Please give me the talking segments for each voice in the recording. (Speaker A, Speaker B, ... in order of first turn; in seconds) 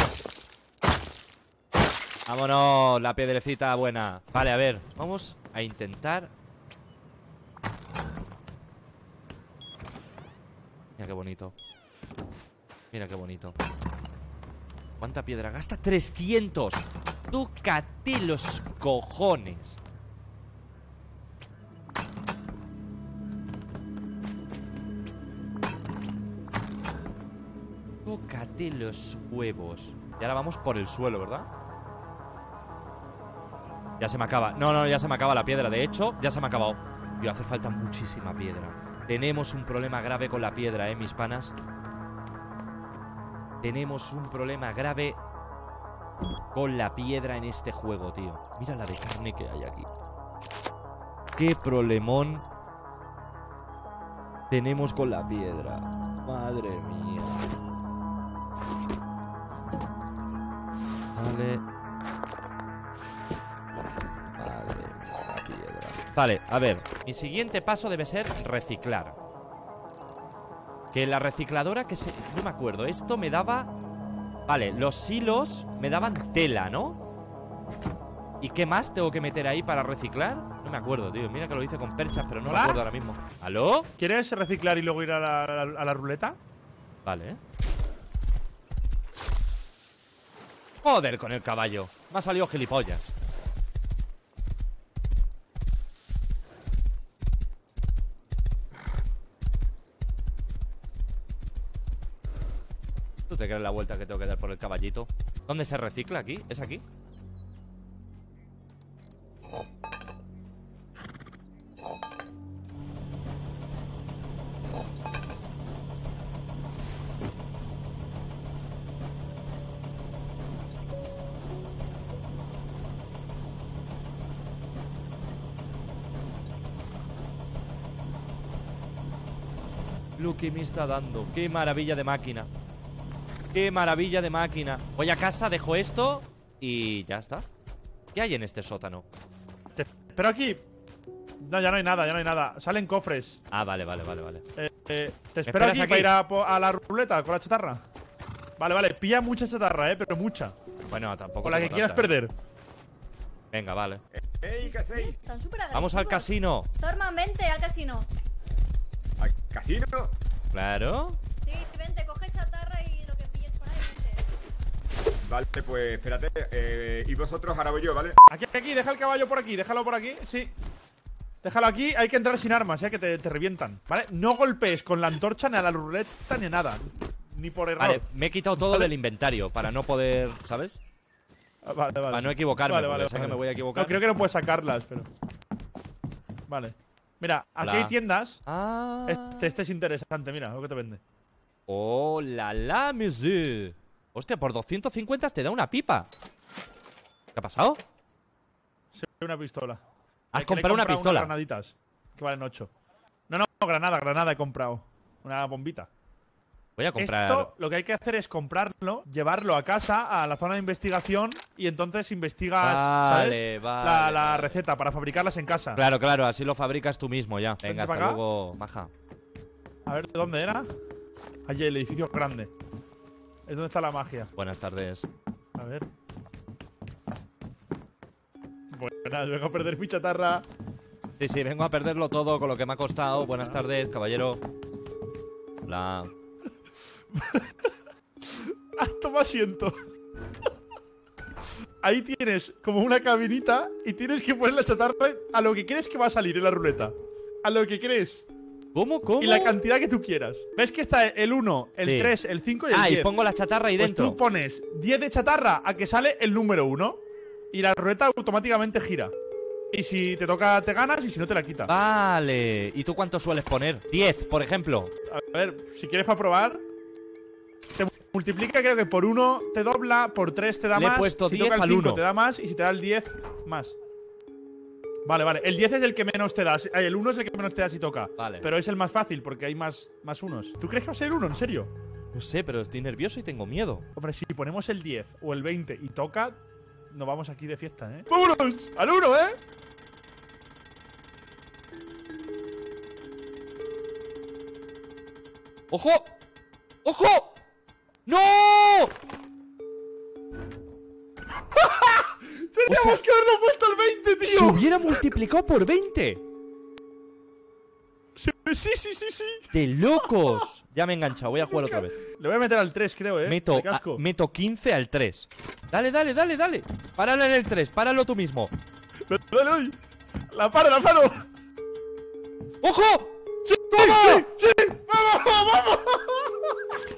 Speaker A: 2.3-6.3, 11.0-11.5, 12.9-13.6, 15.0-19.8, 28.1-31.5, 34.0-41.5, 43.6-45.2, 46.5-49.9, 51.3-52.5, 54.5-57.5, 61.1-61.6, 64.3-69.2, 70.9-73.7, 74.5-77.0, 78.4-83.9, 87.0-87.4, 90.8-93.1, 103.3-106.8, 130.2-132.5, 133.5-137.5, 138.1-139.1, 143.5-144.4, 145.4-146.1, 150.9-152.1, 153.5-154.0, 155.7-156.7, 160.5-161.2, 177.8-180.8, 182.1-184.0, 187.6-189.6, 191.7-196.1, 197.3-197.8, 200.3-201.3, 206.8-207.5, 212.6-214.6, 215.8-218.9, 224.3-225.1, 231.2-234.4, 235.6-236.1, 248.7-249.6, 251.8-252.2, 252.7-254.2, 261.7-264.9, 270.7-272.0, 278.2-278.5, 282.1-283.9, 295.7-296.1, 296.8-297.4, 298.1-298.9, 302.7-303.0, 304.2-306.2, 309.5-312.0, 313.2-318.5, 322.6-324.3
Speaker B: 82.5-82.8, 84.0-86.4, 139.8-140.6, 141.4-143.4, 144.6-147.8, 148.6-150.6, 151.4-152.3, 168.3-170.5, 171.4-178.0, 181.6-185.1, 186.5-188.4, 189.1-191.0, 198.9-199.8, 200.3-202.7, 203.3-205.9, 207.0-215.8, 217.6-218.2, 219.9-220.7, 221.5-222.5, 223.5-224.3, 225.6-225.9, 228.7-230.4, 233.3-233.6, 237.1-237.7, 238.3-239.8, 241.8-248.3, 249.2-253.1, 253.8-257.0, 257.5-259.1, 259.7-261.7, 265.1-266.6, 267.8-273.8, 275.0-281.7, 283.9-286.4, 286.9-289.4, 301.6-305.1, 308.1-309.5, 310.0-310.4, 311.5-314.0, 319.1-319.8, 320.3-321.3, 323.7-326.6
Speaker C: 154.1-155.2, 159.2-160.1, 165.3-168.2
Speaker D: 154.6-158.1, 161.4-164.2